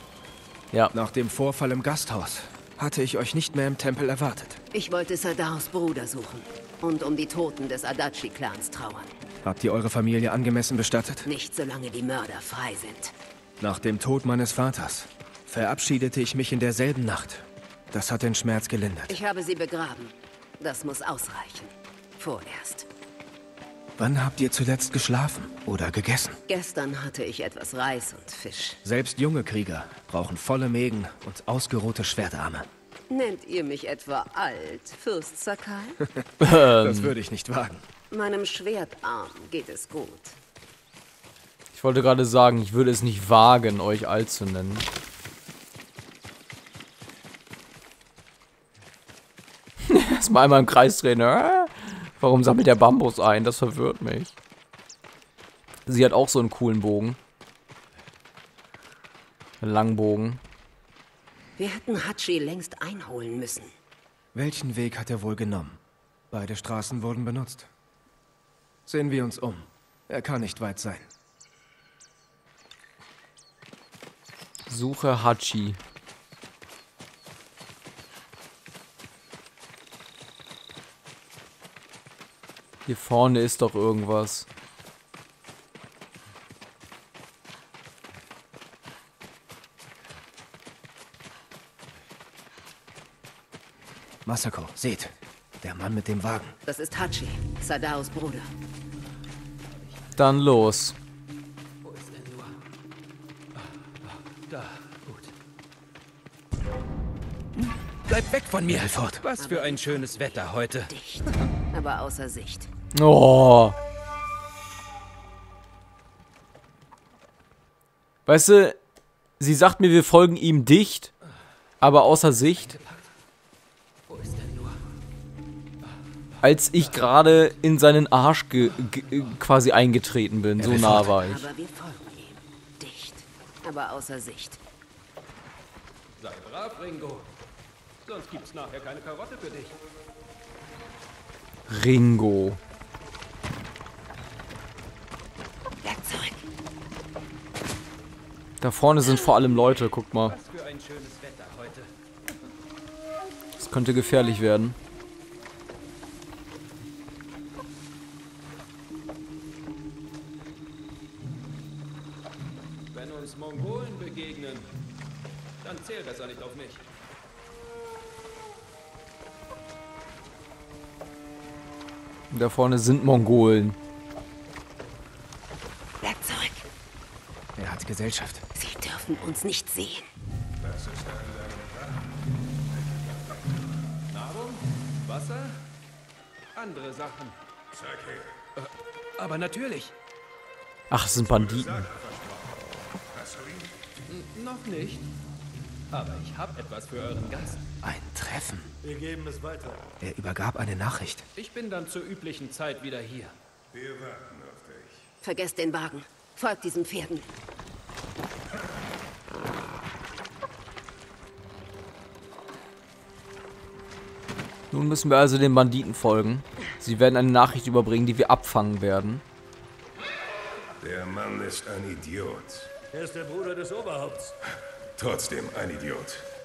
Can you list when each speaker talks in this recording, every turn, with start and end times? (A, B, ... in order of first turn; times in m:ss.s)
0:00.9-0:04.6 A
0:04.7-0:09.2 B
0:09.4-0:11.3 A
0:11.2-0:13.1 B
0:13.6-0:19.2 A
0:19.1-0:22.9 B
0:24.0-0:26.4 A
0:26.5-0:28.8 B
0:28.8-0:32.7 A
0:33.1-0:36.0 B
0:36.2-0:37.8 A
0:36.4-0:37.1 C
0:38.1-0:40.4 B
0:41.7-0:44.9 C
0:49.8-0:54.3 C
0:55.8-0:57.2 C
0:59.6-1:00.4 C
1:01.6-1:03.7 B
1:04.3-1:05.8 A
1:06.3-1:07.7 A
1:08.8-1:11.1 A
1:14.7-1:15.8 C
1:22.8-1:24.5 C
1:34.2-1:36.5 A
1:36.6-1:38.5 B
1:40.2-1:41.0 C
1:41.8-1:42.6 D
1:44.0-1:45.3 D
1:48.1-1:50.9 D
1:48.7-1:49.2 A
1:49.4-1:52.7 B
1:52.9-1:53.8 C
1:58.2-1:58.8 C
1:59.4-2:01.1 C
2:01.8-2:02.8 C
2:04.1-2:04.8 D
2:06.4-2:11.4 C
2:10.6-2:11.1 A
2:11.0-2:14.6 B
2:16.2-2:17.3 D
2:18.0-2:19.8 D
2:21.7-2:22.6 C
2:25.8-2:26.5 B
2:28.6-2:30.4 C
2:30.3-2:31.9 D
2:33.6-2:34.8 C
2:42.9-2:44.7 D
2:45.6-2:46.9 D
2:52.3-2:53.8 C
2:56.0-2:56.7 B
2:57.6-2:58.4 A
2:58.6-3:00.0 B
3:00.6-3:02.1 E
3:02.7-3:03.4 E
3:04.1-3:05.6 D
3:06.5-3:07.3 D
3:07.7-3:08.3 E
3:08.6-3:09.9 D
3:10.9-3:11.9 C
3:11.2-3:13.7 E
3:14.1-3:15.1 D
3:15.9-3:17.7 D
3:17.8-3:18.7 A
3:18.8-3:19.9 F
3:20.0-3:21.2 A
3:21.4-3:23.3 D
3:23.7-3:25.1 E
3:25.2-3:27.3 B
3:34.7-3:39.2 C
3:40.8-3:42.7 E
3:42.9-3:44.3 F
3:45.0-3:46.2 E